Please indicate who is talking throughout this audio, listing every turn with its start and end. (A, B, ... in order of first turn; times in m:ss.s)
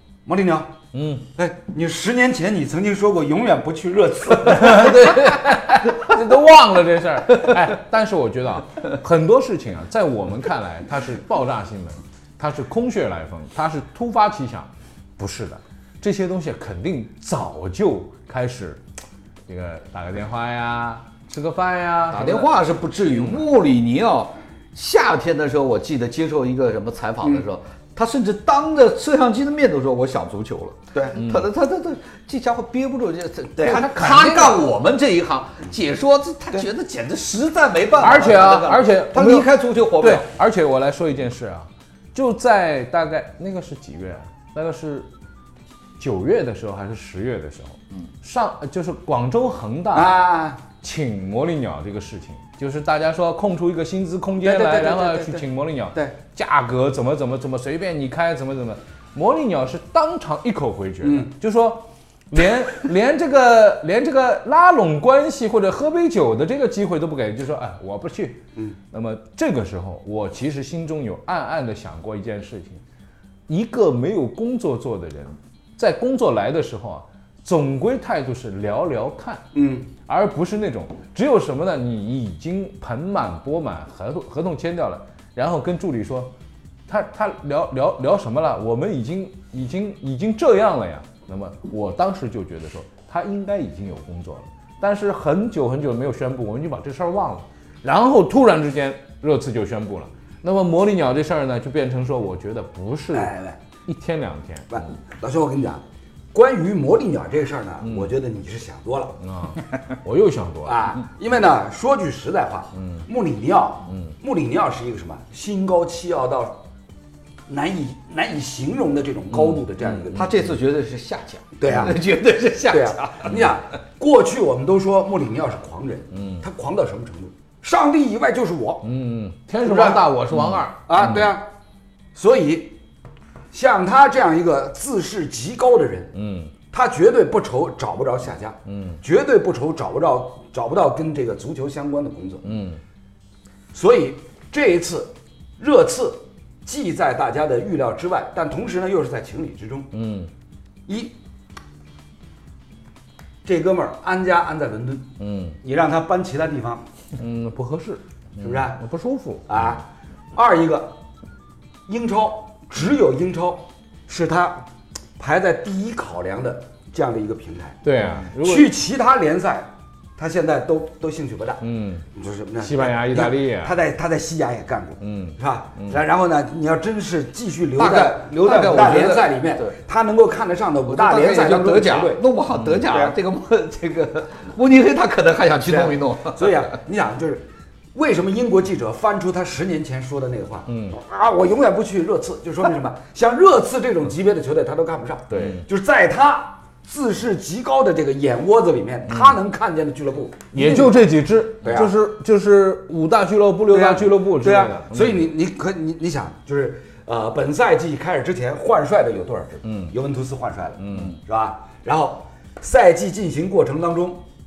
0:00.2-0:00.7 A
0:00.9-0:01.2 B
0:01.3-0:05.4 A
0:04.4-0:18.8 B
0:19.5-0:22.5 B
0:22.1-0:40.2 C
0:30.9-0:31.2 A
0:31.1-0:31.5 B
0:33.6-0:34.6 B
0:38.0-0:45.1 B
0:46.0-0:50.2 B
0:49.9-0:50.6 A
0:50.8-1:12.8 B
0:54.4-0:56.2 A
1:01.0-1:01.3 A
1:13.5-1:19.5 B
1:19.5-1:19.9 A
1:20.0-1:26.3 B
1:26.9-1:43.3 B
1:43.1-1:43.6 A
1:43.8-1:44.8 B
1:44.7-1:49.2 A
1:47.8-1:48.1 B
1:49.2-1:50.9 B
1:50.6-1:56.6 A
1:57.5-2:00.4 A
1:59.3-2:00.1 B
2:00.1-2:03.4 C
2:01.6-2:02.0 A
2:02.7-2:08.9 A
2:06.1-2:06.4 B
2:08.8-2:11.3 B
2:09.6-2:10.1 A
2:10.9-2:11.4 A
2:12.1-2:12.7 A
2:13.5-2:16.1 A
2:16.1-2:16.5 B
2:16.7-2:22.5 A
2:18.7-2:19.0 B
2:22.4-2:22.8 B
2:23.7-2:29.9 A
2:29.9-2:30.3 B
2:30.9-2:31.1 A
2:33.4-2:36.8 A
2:35.2-2:35.6 B
2:37.2-2:39.8 B
2:38.4-2:38.8 A
2:39.5-2:41.0 A
2:41.9-2:44.6 A
2:45.2-2:47.8 A
2:47.8-2:48.7 B
2:48.3-3:02.2 A
2:51.6-2:52.0 B
2:52.6-2:53.7 B
2:55.0-2:56.0 B
2:57.8-2:59.7 C
3:00.9-3:06.7 C
3:02.5-3:02.8 B
3:02.9-3:03.2 A
3:05.6-3:21.0 A
3:10.7-3:11.0 B
3:15.3-3:15.6 B
3:19.1-3:19.4 B
3:20.5-3:25.2 B
3:21.6-3:21.9 A
3:23.7-3:34.2 A
3:29.6-3:29.9 B
3:30.8-3:31.2 B